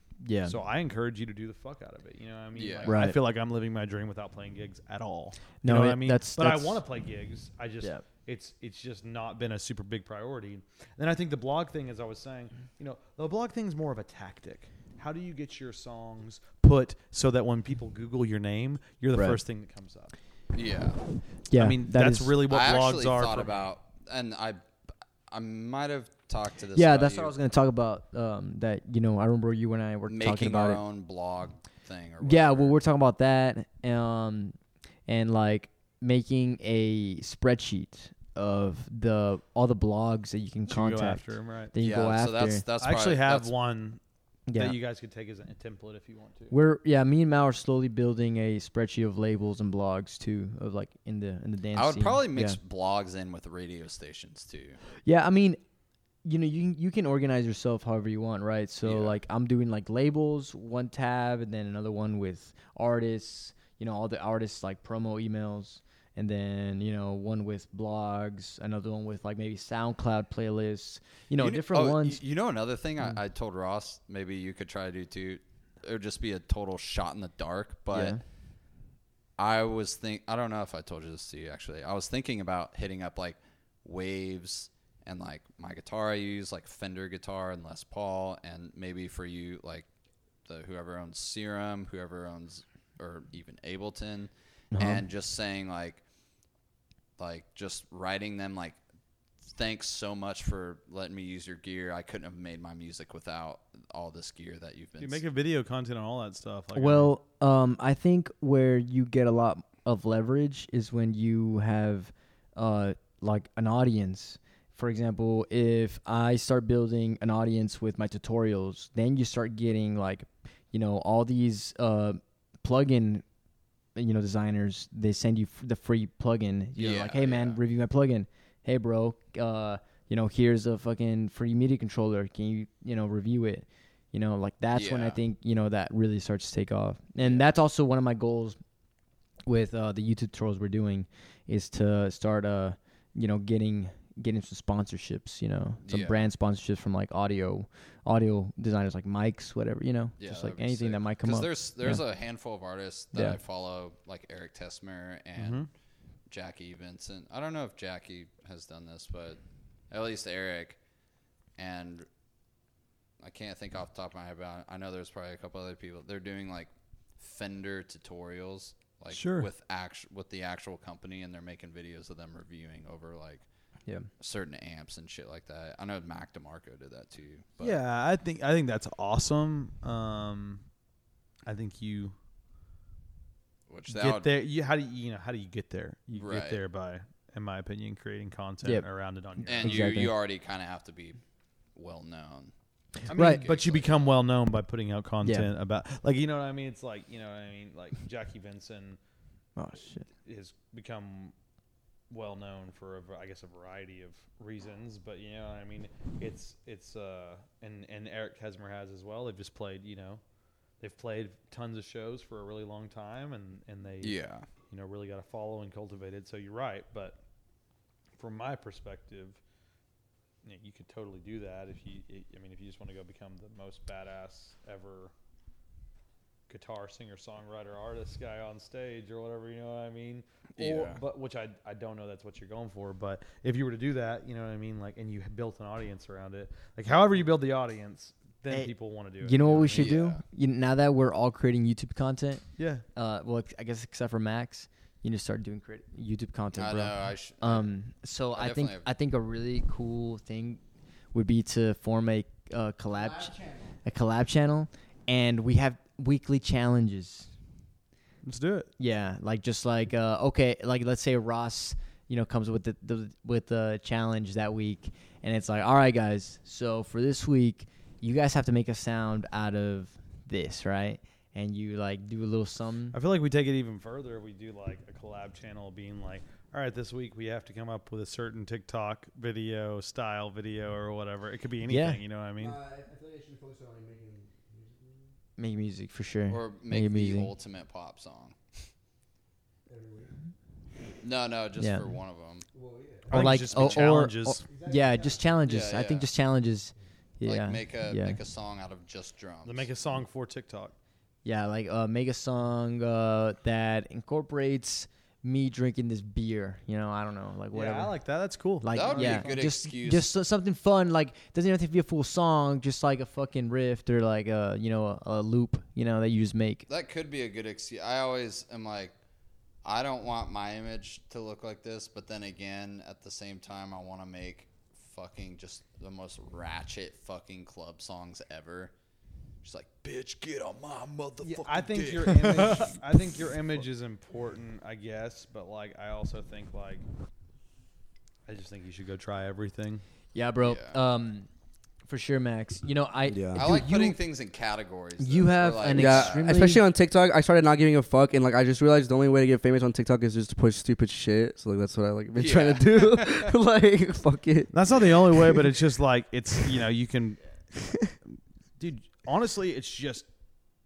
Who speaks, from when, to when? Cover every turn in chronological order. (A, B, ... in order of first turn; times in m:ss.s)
0:00.2-0:00.6 A
0:00.4-0:20.1 B
0:02.6-0:03.0 C
0:02.9-0:03.2 A
0:05.6-0:06.8 A
0:19.1-0:19.4 A
0:20.5-0:21.0 C
0:21.5-0:22.4 A
0:21.5-0:23.6 B
0:22.5-0:24.6 C
0:25.3-0:27.3 C
0:26.7-0:30.8 A
0:30.1-0:32.8 C
0:32.2-0:34.6 A
0:35.1-0:42.6 A
0:40.7-0:41.7 B
0:41.8-0:43.5 C
0:42.8-0:44.0 B
0:44.5-0:44.8 A
0:44.6-0:46.6 B
0:46.5-0:52.6 A
0:51.7-0:54.8 C
0:55.0-0:55.6 A
0:56.2-1:12.2 A
0:58.8-0:59.2 C
1:11.4-1:18.2 C
1:17.9-1:18.2 A
1:19.4-1:29.9 C
1:30.5-1:36.0 C
1:34.7-1:35.0 A
1:37.2-1:38.8 C
1:39.4-1:45.2 C
1:45.0-1:47.1 B
1:46.8-2:03.2 A
2:04.0-2:18.6 A
2:06.8-2:07.6 C
2:14.7-2:15.2 C
2:17.2-2:17.5 C
2:19.5-2:32.0 A
2:25.8-2:26.3 C
2:30.2-2:35.6 C
2:35.4-2:35.7 B
2:36.3-2:39.4 C
2:39.9-2:40.8 C
2:41.6-2:42.1 C
2:43.2-2:53.4 C
2:49.1-2:49.5 B
2:54.2-2:57.8 C
2:57.6-3:00.6 B
3:01.5-3:02.2 B
3:03.7-3:04.3 C
3:03.9-3:10.0 B
3:06.2-3:06.6 C
3:09.4-3:11.2 C
3:09.6-3:10.1 A
3:11.8-3:12.5 C
3:13.0-3:13.9 C
3:13.1-3:13.4 A
3:13.1-3:19.0 B
3:15.2-3:15.5 A
3:19.6-3:20.1 A
3:20.2-3:21.3 B
3:22.1-3:30.2 B
3:30.8-3:37.2 B
3:34.0-3:34.5 C
3:38.2-3:39.4 B
3:40.4-3:45.1 B
3:46.5-3:59.9 B
3:50.6-3:51.0 C
3:58.5-4:10.6 A
3:59.7-4:00.2 C
4:02.6-4:02.8 B
4:06.6-4:07.7 C
4:08.4-4:08.9 C
4:11.1-4:17.3 A
4:13.0-4:13.7 D
4:18.2-4:18.7 B
4:18.8-4:33.0 A
4:32.9-4:42.6 B
4:41.7-4:42.0 A
4:42.4-4:45.1 D
4:45.4-4:47.3 A
4:46.3-4:48.4 C
4:49.7-4:50.1 D
4:51.0-4:52.5 C
4:51.6-4:51.9 A
4:52.5-4:53.2 D
4:53.1-4:54.4 B
4:53.1-4:58.2 A
4:53.2-4:53.9 C
4:54.5-4:55.2 D
4:55.5-4:56.1 C
4:57.2-4:59.7 C
4:59.4-5:00.8 B
5:01.2-5:08.0 A
5:07.5-5:09.4 B
5:08.6-5:16.7 A
5:08.7-5:10.1 C
5:16.7-5:18.9 C
5:19.6-5:28.7 C
5:29.4-5:32.8 C
5:31.2-5:36.8 B
5:38.3-5:39.8 B
5:40.1-5:41.3 A
5:40.4-5:40.8 C
5:41.9-5:44.0 A
5:43.1-5:43.5 D
5:43.4-5:46.3 C
5:45.0-5:46.6 A
5:45.7-5:55.6 D
5:52.2-5:53.3 C
5:54.5-5:57.2 B
5:58.6-6:00.1 B